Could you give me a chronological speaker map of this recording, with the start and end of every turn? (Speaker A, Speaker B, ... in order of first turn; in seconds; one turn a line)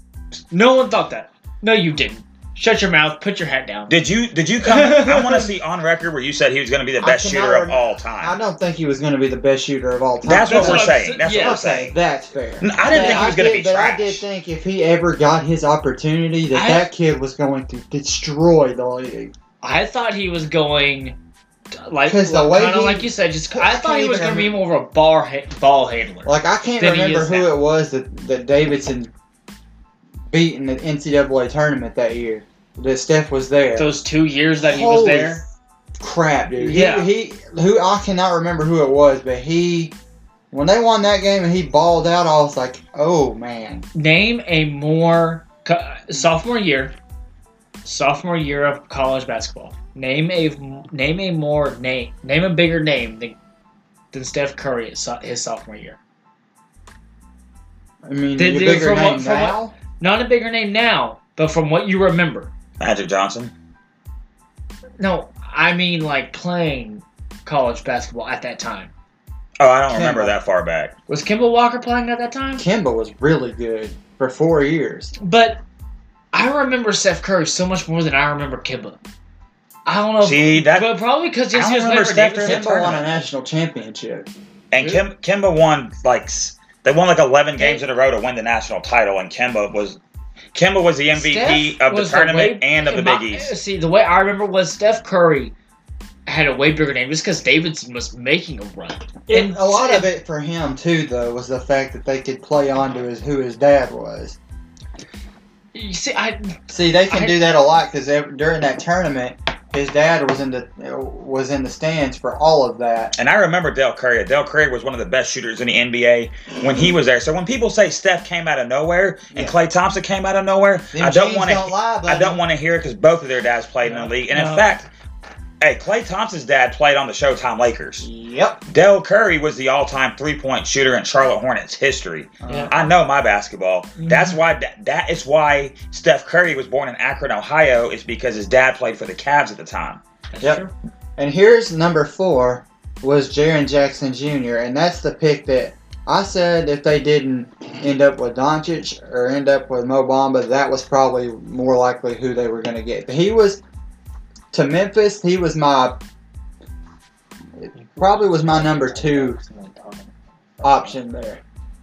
Speaker A: 0.5-3.9
Speaker B: 3.9-8.4
Speaker A: 4.6-5.5
Speaker C: 7.0-19.3
Speaker B: 10.2-11.9
Speaker A: 10.3-11.6
Speaker B: 12.6-14.2
Speaker A: 12.8-13.3
Speaker A: 16.5-16.9
Speaker A: 19.6-21.2
Speaker A: 21.7-27.5
Speaker C: 22.1-24.6
Speaker C: 26.2-29.1
Speaker C: 30.3-33.9
Speaker A: 33.8-35.4
Speaker C: 34.6-35.4
Speaker C: 36.0-39.9
Speaker A: 36.5-37.1
Speaker C: 40.5-43.9
Speaker A: 43.9-46.9
Speaker A: 47.8-53.4
Speaker A: 54.1-56.0
Speaker C: 58.0-59.7
Speaker A: 58.4-62.5
Speaker B: 62.8-63.5
Speaker A: 65.0-68.9
Speaker B: 69.6-70.9
Speaker C: 69.9-70.4
Speaker A: 71.1-72.7
Speaker C: 72.6-75.1
Speaker A: 75.2-75.6
Speaker A: 76.3-79.0
Speaker A: 79.9-83.0
Speaker B: 80.2-80.9
Speaker B: 81.5-83.0
Speaker C: 82.4-84.3
Speaker B: 84.7-90.0
Speaker A: 84.8-85.0
Speaker A: 87.6-87.8
Speaker B: 90.5-93.5
Speaker A: 91.1-95.5
Speaker A: 96.2-100.1
Speaker C: 99.3-104.4
Speaker A: 105.7-107.4
Speaker C: 106.7-113.1
Speaker B: 113.2-124.9
Speaker C: 120.9-122.4
Speaker A: 123.8-124.7
Speaker B: 125.6-128.1
Speaker C: 128.0-128.6
Speaker B: 128.7-140.0
Speaker C: 132.4-132.8
Speaker A: 132.5-132.9
Speaker A: 134.0-134.4
Speaker A: 140.3-140.7
Speaker C: 141.2-153.6
Speaker C: 154.5-156.0
Speaker C: 157.6-159.4
Speaker A: 157.7-161.0
Speaker C: 160.6-161.4